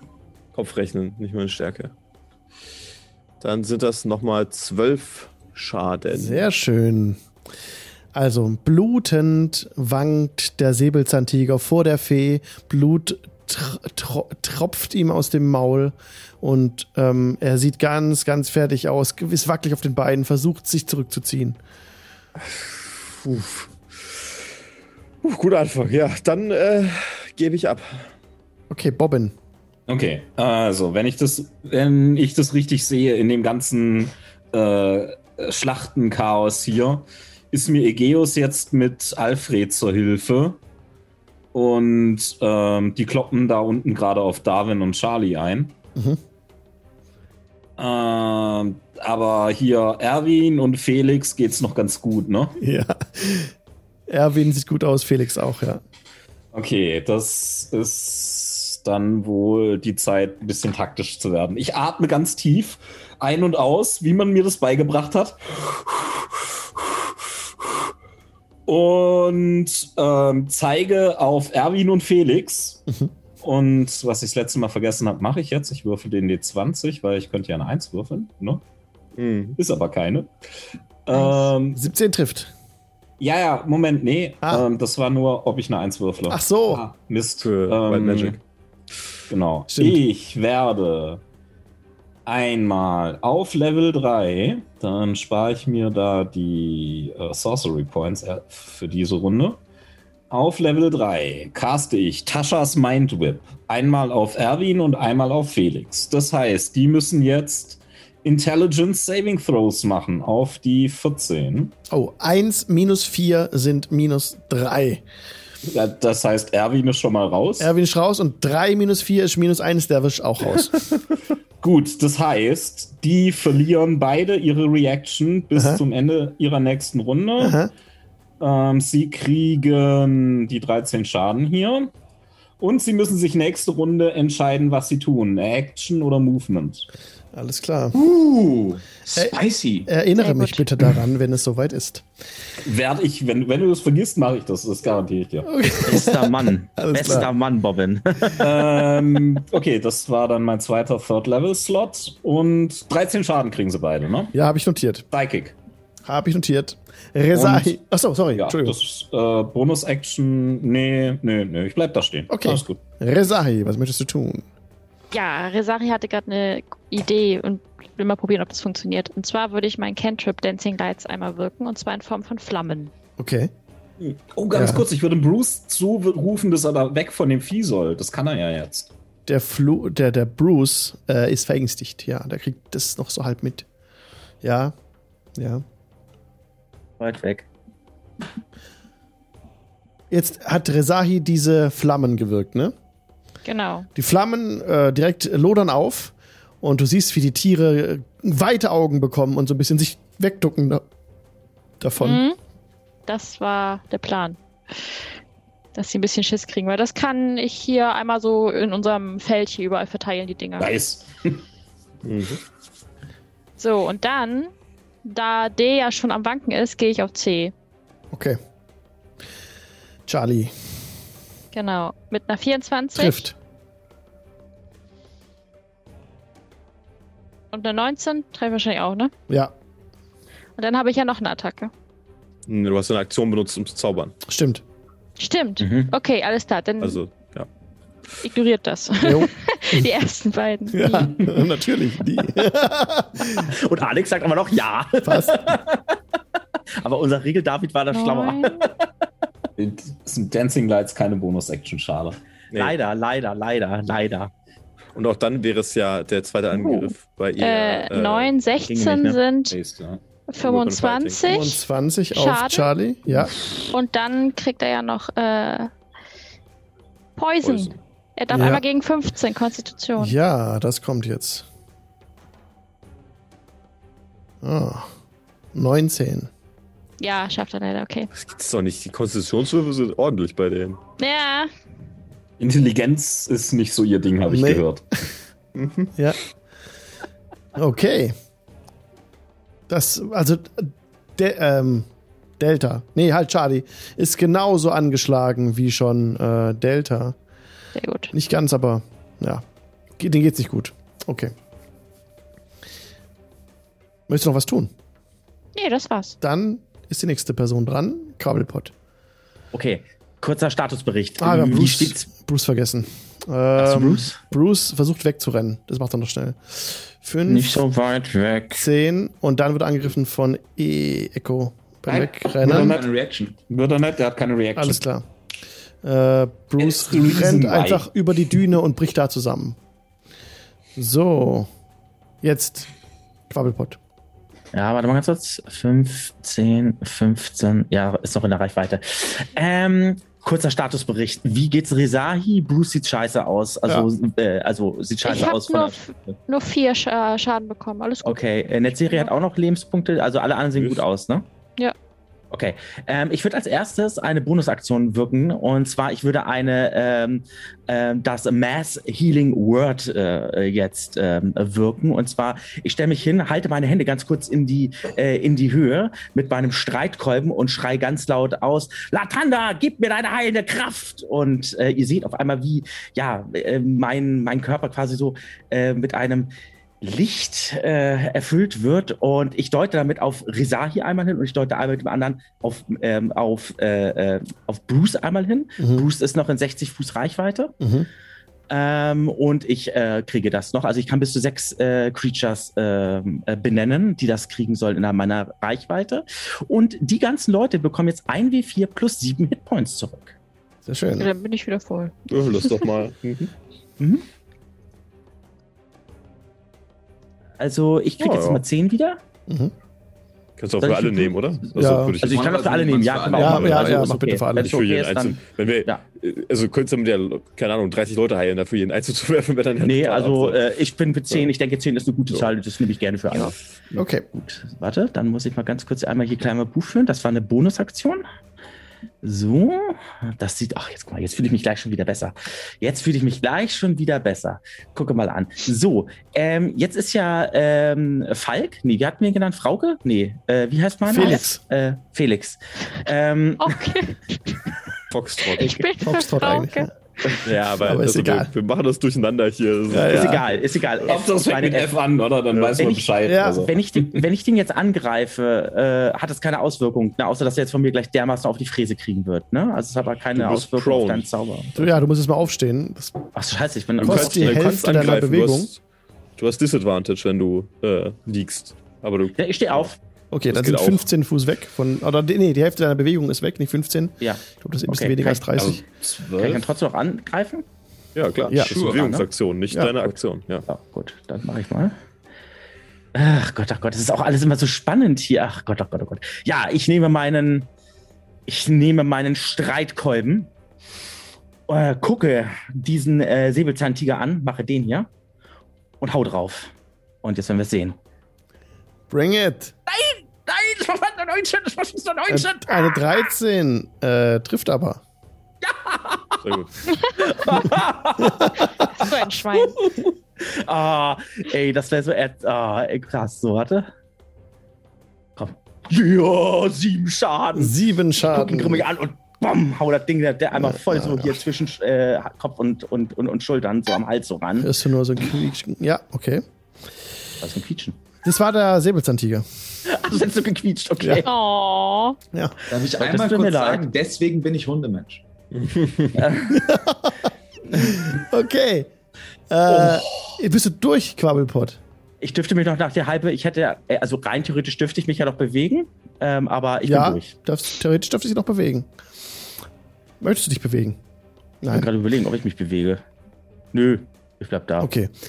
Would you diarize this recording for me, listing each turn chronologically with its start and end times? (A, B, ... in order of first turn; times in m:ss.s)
0:00.5-0:01.9 A
0:03.4-0:06.4 A
0:06.1-0:07.2 B
0:08.1-0:21.6 B
0:22.4-0:24.2 A
0:25.2-0:28.1 A
0:28.7-0:29.3 B
0:29.9-0:40.6 C
0:41.5-0:45.7 C
0:47.8-0:52.6 C
0:52.6-0:53.5 B
0:54.1-0:55.8 B
0:56.5-1:07.0 C
1:08.7-1:12.8 C
1:13.4-1:18.6 C
1:19.2-1:19.6 A
1:19.6-1:20.3 C
1:21.0-1:21.8 C
1:21.1-1:22.5 B
1:23.2-1:28.4 C
1:26.3-1:26.8 B
1:27.4-1:28.4 A
1:29.3-1:31.2 C
1:29.7-1:30.0 B
1:32.2-1:39.6 C
1:40.3-1:51.7 C
1:51.9-1:55.0 B
1:55.6-1:57.7 C
1:57.6-2:00.8 B
2:01.6-2:07.6 C
2:05.5-2:05.8 B
2:07.4-2:07.7 B
2:08.4-2:11.9 C
2:12.6-2:16.9 C
2:17.3-2:18.0 B
2:17.9-2:19.9 D
2:19.1-2:22.0 B
2:20.2-2:20.6 E
2:22.6-2:25.5 C
2:25.4-2:27.3 B
2:25.8-2:28.5 F
2:28.4-2:34.3 C
2:34.3-2:35.0 B
2:35.1-2:35.5 C
2:36.0-2:38.8 B
2:37.3-2:37.8 C
2:38.3-2:42.8 C
2:42.3-2:44.4 B
2:45.1-2:52.9 E
2:53.2-2:53.5 B
2:54.0-2:58.9 C
2:54.5-2:54.8 B
2:59.2-3:03.6 B
3:04.4-3:04.7 B
3:05.4-3:05.6 B
3:07.0-3:07.5 F
3:10.1-3:12.7 B
3:13.4-3:13.9 E
3:13.9-3:20.8 B
3:21.8-3:22.2 B
3:22.0-3:22.4 E
3:23.1-3:25.0 E
3:25.7-3:30.8 E
3:30.6-3:31.4 C
3:32.0-3:32.4 A
3:33.6-3:34.5 E
3:35.0-3:37.5 E
3:38.1-3:38.4 B
3:40.1-3:40.5 B
3:41.5-3:43.3 E
3:42.9-3:43.3 B
3:47.5-3:49.1 E
3:50.6-3:51.7 E
3:52.5-3:54.1 A
3:54.2-3:54.6 B
3:55.2-3:57.0 E
3:55.6-3:55.9 F
3:56.8-3:57.5 A
3:58.2-4:01.3 E
3:59.0-3:59.3 B
4:00.7-4:03.5 B
4:03.4-4:06.0 F
4:05.0-4:05.5 B
4:06.8-4:08.8 F
4:07.9-4:08.6 E
4:09.6-4:12.2 C
4:12.5-4:14.3 F
4:14.9-4:18.3 A
4:16.5-4:19.5 E
4:18.7-4:19.2 F
4:19.5-4:20.0 C
4:20.3-4:21.6 E
4:20.4-4:21.4 A
4:21.2-4:23.4 B
4:22.1-4:22.7 E
4:23.2-4:25.7 E
4:27.2-4:30.1 E
4:27.4-4:27.8 A
4:28.3-4:28.6 B
4:30.0-4:31.4 B
4:34.4-4:34.9 B
4:35.5-4:36.3 B
4:37.0-4:38.1 E
4:38.1-4:40.8 A
4:41.0-4:41.5 E
4:42.4-4:44.8 C
4:44.3-4:44.6 B
4:45.5-4:45.9 A
4:47.6-4:48.1 B
4:49.7-4:51.9 B
4:52.4-4:57.2 B
4:57.7-4:58.1 E
4:58.1-4:59.4 B
5:00.0-5:01.3 B
5:04.1-5:04.7 B
5:05.5-5:06.2 E
5:06.2-5:08.7 B
5:09.5-5:12.0 F
5:11.2-5:17.6 B
5:13.6-5:14.2 F
5:17.3-5:18.6 F
5:18.6-5:22.8 B
5:21.9-5:22.9 C
5:22.4-5:23.4 D
5:23.5-5:24.8 C
5:24.6-5:25.0 B
5:25.8-5:29.6 B
5:26.6-5:27.8 C
5:30.8-5:31.5 B
5:32.2-5:32.7 B
5:33.3-5:33.8 B
5:34.5-5:46.1 F
5:45.0-5:49.1 E
5:48.0-5:51.2 F
5:50.6-5:50.8 A
5:52.3-6:27.6 F
6:25.6-6:25.8 B
6:27.6-6:27.9 B
6:28.5-6:40.2 F
6:40.6-6:41.1 B
6:41.0-6:41.9 E
6:42.1-6:43.3 A
6:43.8-6:44.0 F
6:47.4-6:49.0 F
6:48.0-6:48.4 A
6:49.3-6:49.5 B
6:50.4-6:52.3 A
6:50.6-6:51.1 F
6:51.5-6:52.0 B
6:52.0-6:55.8 F
6:52.1-6:53.8 D
6:53.1-6:54.5 B
6:54.4-7:00.4 A
6:59.6-7:03.4 F
7:03.8-7:04.0 B
7:04.1-7:08.0 F
7:09.0-7:23.6 F
7:20.9-7:21.4 B
7:23.4-7:24.4 E
7:24.9-7:25.6 A
7:25.3-7:26.7 E
7:25.8-7:26.7 B
7:27.2-7:30.4 A
7:27.5-7:28.3 B
7:29.7-7:30.2 B
7:29.8-7:31.7 F
7:30.8-7:33.9 C
7:32.3-7:32.7 A
7:32.6-7:41.8 F
7:33.0-7:33.4 B
7:40.1-7:41.1 A
7:41.6-7:43.0 B
7:43.1-7:44.4 F
7:43.8-7:45.6 A
7:43.8-7:45.5 B
7:46.2-7:49.7 A
7:49.2-7:49.8 F
7:50.1-7:55.6 B
7:50.3-7:50.9 A
7:54.0-7:55.4 F
7:55.4-7:56.4 C
7:56.2-7:57.4 F
7:57.9-8:00.4 A
7:58.4-7:59.1 F
7:58.5-7:58.8 D
8:00.5-8:01.8 F
8:02.9-8:07.5 F
8:08.3-8:10.3 F
8:11.5-8:14.9 F
8:15.8-8:17.8 F
8:18.9-8:19.5 B
8:19.7-8:22.9 F
8:22.1-8:24.8 B
8:25.4-8:26.2 F
8:26.2-8:26.5 A
8:26.9-8:28.8 F
8:28.5-8:29.6 E
8:30.2-8:33.7 F
8:35.2-8:44.5 F
8:37.4-8:38.6 B
8:40.3-8:41.2 B
8:44.4-8:46.2 B
8:47.2-8:47.8 F
8:48.0-8:49.2 B
8:49.7-8:51.1 F
8:51.0-8:52.0 E
8:52.5-8:55.0 D
8:52.8-8:53.7 F
8:55.3-8:56.0 A
8:55.9-8:56.4 F
8:56.3-8:58.7 B
8:59.3-9:01.6 B
9:02.0-9:07.1 F
9:06.6-9:08.7 B
9:10.0-9:10.8 B
9:11.4-9:11.7 B
9:11.5-9:12.8 F
9:13.5-9:14.7 F
9:14.6-9:14.9 B